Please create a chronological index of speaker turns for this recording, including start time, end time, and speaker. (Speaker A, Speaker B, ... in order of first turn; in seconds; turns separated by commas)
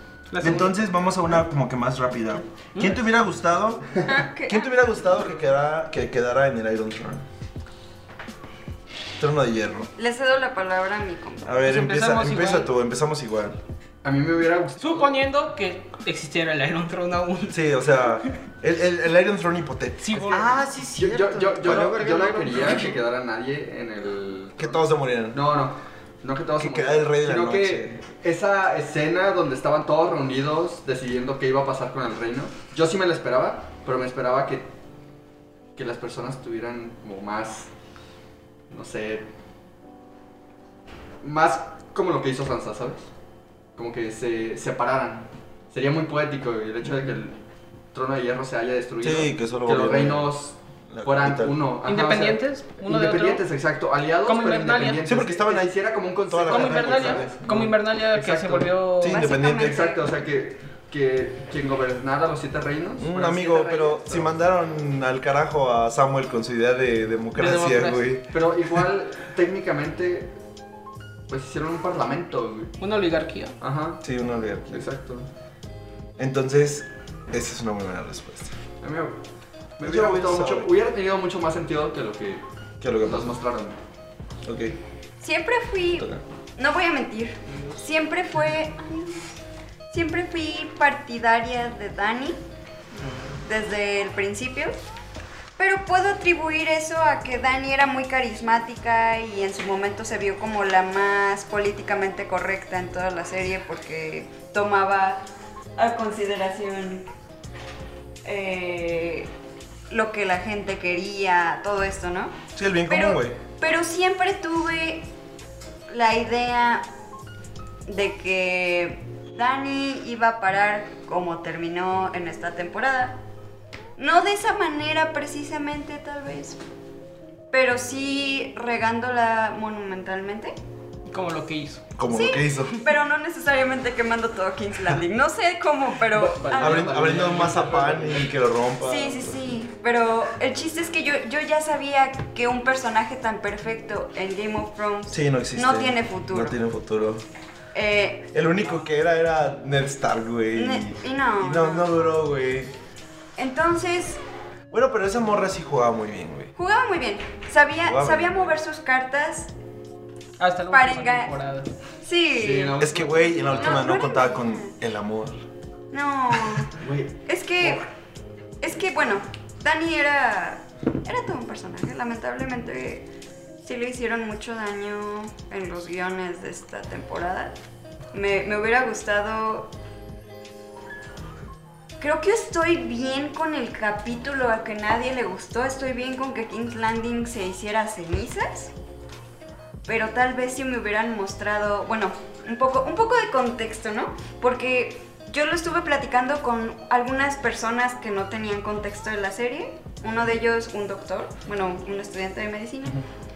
Speaker A: 0.3-0.9, Speaker B: 0.4-7.2, Speaker A: 2.8-3.0, Speaker C: 4.0-4.9, Speaker B: 9.2-9.9, Speaker C: 10.0-11.5, Speaker B: 11.4-13.6, Speaker A: 11.6-12.7, Speaker D: 14.0-15.2, Speaker A: 14.8-18.3, Speaker B: 17.5-20.5, Speaker A: 20.0-20.6, Speaker E: 20.3-23.0, Speaker D: 20.9-34.7, Speaker B: 24.6-25.4, Speaker B: 26.6-28.0, Speaker D: 35.8-37.7, Speaker D: 38.7-39.3, Speaker D: 41.2-43.1, Speaker D: 43.8-47.4, Speaker D: 47.9-58.8, Speaker B: 49.0-50.3, Speaker B: 50.9-51.6, Speaker A: 51.8-53.4, Speaker A: 54.2-55.0, Speaker B: 55.0-57.6, Speaker A: 56.5-59.2, Speaker B: 59.0-59.8, Speaker C: 59.0-60.0, Speaker D: 59.3-64.3, Speaker B: 63.0-68.3, Speaker A: 67.3-68.1, Speaker D: 68.3-70.4, Speaker D: 71.3-72.8, Speaker A: 72.8-73.6, Speaker D: 73.6-74.0, Speaker B: 74.0-74.9, Speaker D: 74.7-75.3, Speaker B: 76.2-78.5, Speaker D: 78.8-79.2, Speaker D: 79.8-82.4, Speaker B: 79.8-80.7, Speaker B: 82.8-83.4, Speaker D: 83.0-83.8, Speaker B: 84.4-84.8, Speaker C: 85.2-89.3, Speaker A: 87.5-87.8, Speaker C: 89.9-92.4, Speaker A: 93.0-93.4, Speaker C: 93.4-94.8, Speaker C: 95.6-105.2, Speaker C: 105.8-107.1, Speaker C: 108.2-109.3, Speaker C: 109.9-112.3, Speaker B: 112.5-113.4, Speaker C: 112.9-115.1, Speaker C: 115.9-116.8, Speaker C: 117.9-123.2, Speaker C: 124.0-126.6, Speaker C: 127.5-130.5, Speaker A: 131.1-131.8, Speaker B: 132.0-132.9, Speaker C: 132.1-136.9, Speaker D: 136.1-138.3, Speaker B: 136.6-139.4, Speaker C: 138.8-146.5, Speaker B: 145.1-147.2, Speaker C: 147.7-148.3, Speaker B: 148.3-152.7, Speaker C: 150.6-151.9, Speaker C: 153.4-154.2, Speaker B: 154.7-156.5, Speaker C: 156.6-159.5, Speaker B: 157.8-158.6, Speaker A: 160.4-161.7, Speaker C: 160.7-161.3, Speaker C: 162.0-162.8, Speaker D: 162.3-163.7, Speaker B: 162.8-165.4, Speaker E: 163.3-163.6, Speaker C: 163.4-164.7, Speaker C: 165.9-167.8, Speaker D: 166.8-167.1, Speaker C: 168.6-173.1, Speaker C: 173.6-177.6, Speaker C: 178.1-179.7, Speaker C: 182.0-188.7, Speaker C: 189.8-203.0